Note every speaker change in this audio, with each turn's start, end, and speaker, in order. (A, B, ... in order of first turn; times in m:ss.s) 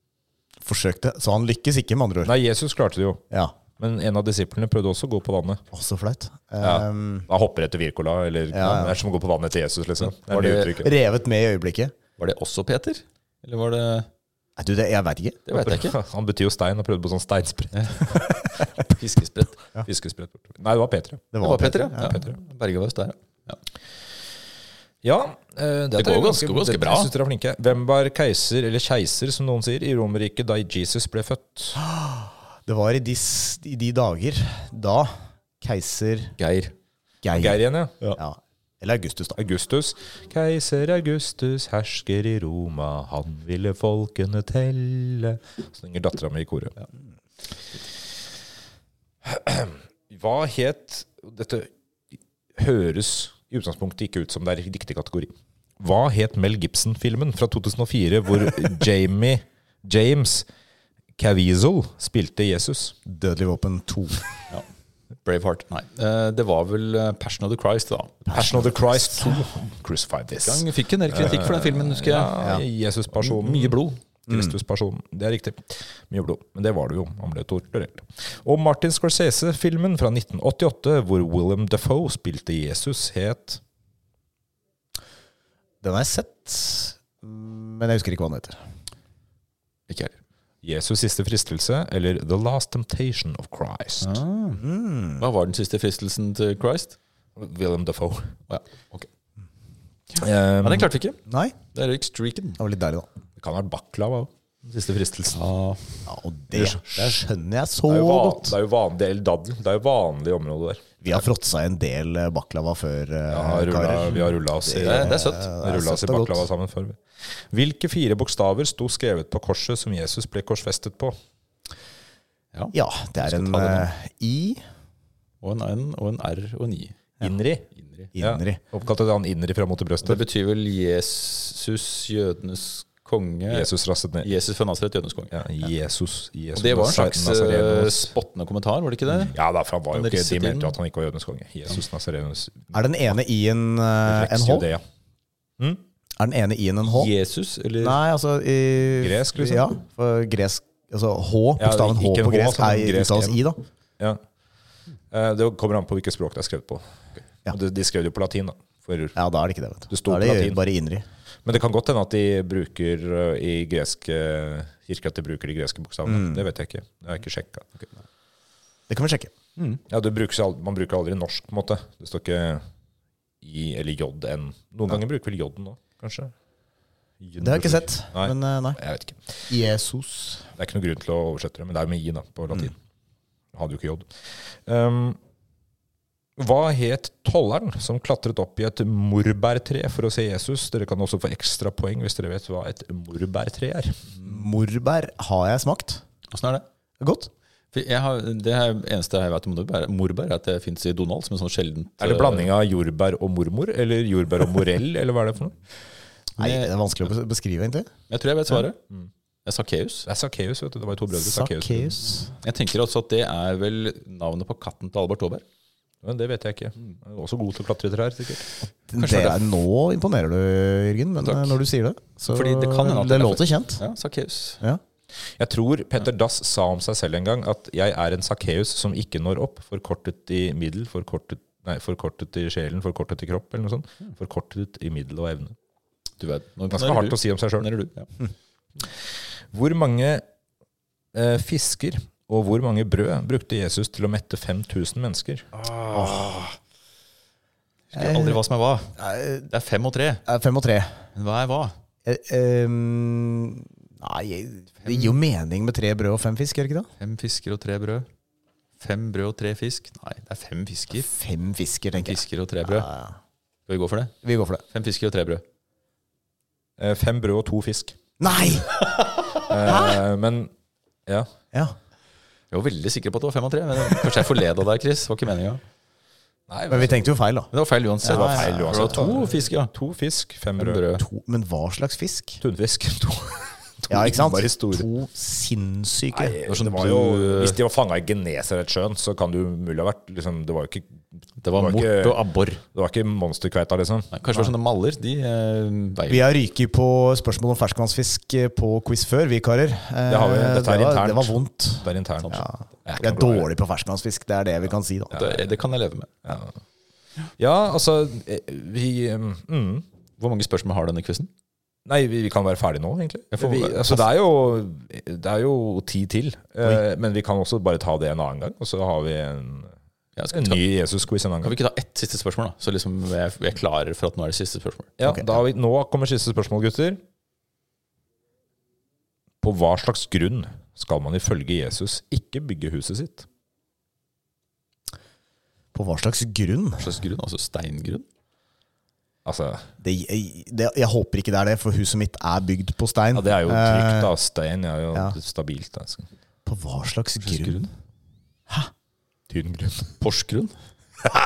0:00.6-0:02.3 A
0:02.2-0:03.2 B
0:03.3-0:03.6 A
0:03.8-0:05.6 B
0:05.7-0:07.3 A
0:06.6-0:10.9 B
0:08.5-0:09.0 A
0:10.2-0:10.7 C
0:10.4-0:11.9 A
0:12.2-0:14.1 C
0:14.6-0:15.4 A
0:15.5-0:16.0 C
0:15.5-0:18.4 B
0:17.8-0:18.1 C
0:18.8-0:19.6 C
0:19.8-0:21.3 B
0:21.3-0:22.2 A
0:21.4-0:23.6 C
0:22.0-0:22.4 B
0:25.0-0:31.8 B
0:26.0-0:27.1 C
0:31.8-0:35.1 A
0:35.6-0:36.4 A
0:36.4-0:36.8 C
0:37.2-0:39.4 A
0:37.4-0:38.0 B
0:39.4-0:46.8 B
0:49.2-0:51.7 B
0:52.6-1:00.5 B
1:01.2-1:03.0 B
1:03.1-1:04.2 A
1:05.2-1:08.2 C
1:08.3-1:09.4 A
1:08.3-1:23.6 B
1:10.4-1:12.4 C
1:13.1-1:14.0 C
1:14.3-1:14.6 A
1:25.8-1:28.6 A
1:29.9-1:30.2 C
1:30.6-1:34.2 B
1:34.0-1:34.6 C
1:34.6-1:35.3 A
1:35.2-1:37.0 C
1:37.4-1:38.4 B
1:38.5-1:39.1 C
1:40.2-1:40.9 B
1:40.6-1:41.2 C
1:41.3-1:41.6 A
1:41.7-1:42.6 C
1:42.6-1:43.1 A
1:43.4-1:45.4 B
1:45.3-1:46.1 C
1:46.1-1:48.6 A
1:46.6-1:47.0 B
1:47.9-1:50.8 B
1:51.0-1:56.5 A
1:53.3-2:01.2 B
1:54.1-1:55.6 C
2:02.5-2:03.9 C
2:02.7-2:04.6 A
2:05.4-2:07.0 C
2:07.2-2:10.2 B
2:07.7-2:08.1 C
2:08.2-2:08.6 A
2:10.0-2:15.4 C
2:13.5-2:14.4 B
2:15.3-2:18.1 B
2:16.6-2:19.4 C
2:19.1-2:22.8 B
2:19.9-2:20.8 C
2:22.7-2:24.7 A
2:24.1-2:24.8 B
2:26.2-2:27.1 A
2:26.9-2:28.0 C
2:27.8-2:33.6 A
2:29.0-2:29.7 B
2:31.6-2:33.4 B
2:35.1-2:36.8 B
2:37.5-2:39.2 B
2:39.2-2:41.0 A
2:39.9-2:40.6 B
2:41.4-2:47.7 B
2:46.0-2:46.5 A
2:48.9-2:49.3 A
2:49.9-2:52.6 B
2:53.4-2:56.3 B
2:57.2-2:59.5 B
2:57.4-2:58.8 A
2:59.5-3:00.5 A
3:00.6-3:02.8 B
3:03.5-3:05.2 B
3:06.4-3:14.1 B
3:14.2-3:16.0 A
3:16.3-3:16.7 C
3:17.0-3:17.3 A
3:17.7-3:22.5 C
3:22.0-3:25.6 B
3:26.4-3:26.7 C
3:26.4-3:27.9 A
3:28.1-3:28.8 C
3:29.4-3:30.1 C
3:30.1-3:32.0 B
3:31.1-3:32.3 A
3:32.4-3:35.4 C
3:36.0-3:38.4 B
3:38.9-3:43.8 A
3:39.0-3:39.5 C
3:41.2-3:41.6 C
3:42.3-3:44.6 C
3:45.4-3:55.5 B
3:56.2-3:58.1 C
3:56.7-3:57.7 B
3:59.5-4:00.2 B
4:01.1-4:05.5 B
4:05.9-4:06.4 A
4:07.9-4:10.2 C
4:07.9-4:08.4 A
4:09.0-4:09.5 A
4:10.2-4:11.1 A
4:11.2-4:11.7 C
4:12.0-4:16.9 A
4:14.8-4:15.2 C
4:17.0-4:18.1 C
4:18.8-4:21.1 C
4:20.9-4:23.1 A
4:22.0-4:22.9 C
4:23.7-4:24.1 C
4:24.2-4:24.6 A
4:24.7-4:25.4 C
4:26.8-4:28.0 B
4:28.2-4:28.7 A
4:29.4-4:30.5 B
4:29.6-4:30.0 A
4:32.5-4:35.6 C
4:36.5-4:37.0 B
4:36.7-4:37.5 A
4:37.5-4:39.7 C
4:38.0-4:39.1 A
4:38.1-4:40.8 B
4:40.6-4:41.0 C
4:41.0-4:42.4 A
4:42.4-4:44.9 B
4:43.9-4:46.4 A
4:46.1-4:54.2 B
4:46.5-4:47.6 C
4:51.4-4:52.6 C
4:54.1-4:56.3 C
4:56.1-5:05.2 A
5:00.1-5:03.5 B
5:05.1-5:06.1 C
5:05.1-5:05.4 B
5:06.2-5:06.6 B
5:07.4-5:09.8 B
5:10.2-5:11.3 C
5:11.9-5:19.7 B
5:13.3-5:14.0 C
5:20.2-5:20.6 C
5:20.3-5:21.6 B
5:21.4-5:25.2 C
5:25.0-5:27.0 B
5:29.4-5:33.2 B
5:35.7-5:37.0 A
5:36.8-5:38.0 C
5:39.2-5:39.7 B
5:39.8-5:44.1 A
5:43.1-5:46.1 B
5:46.5-5:47.6 A
5:47.2-5:47.7 C
5:49.3-5:50.0 B
5:50.0-5:50.5 C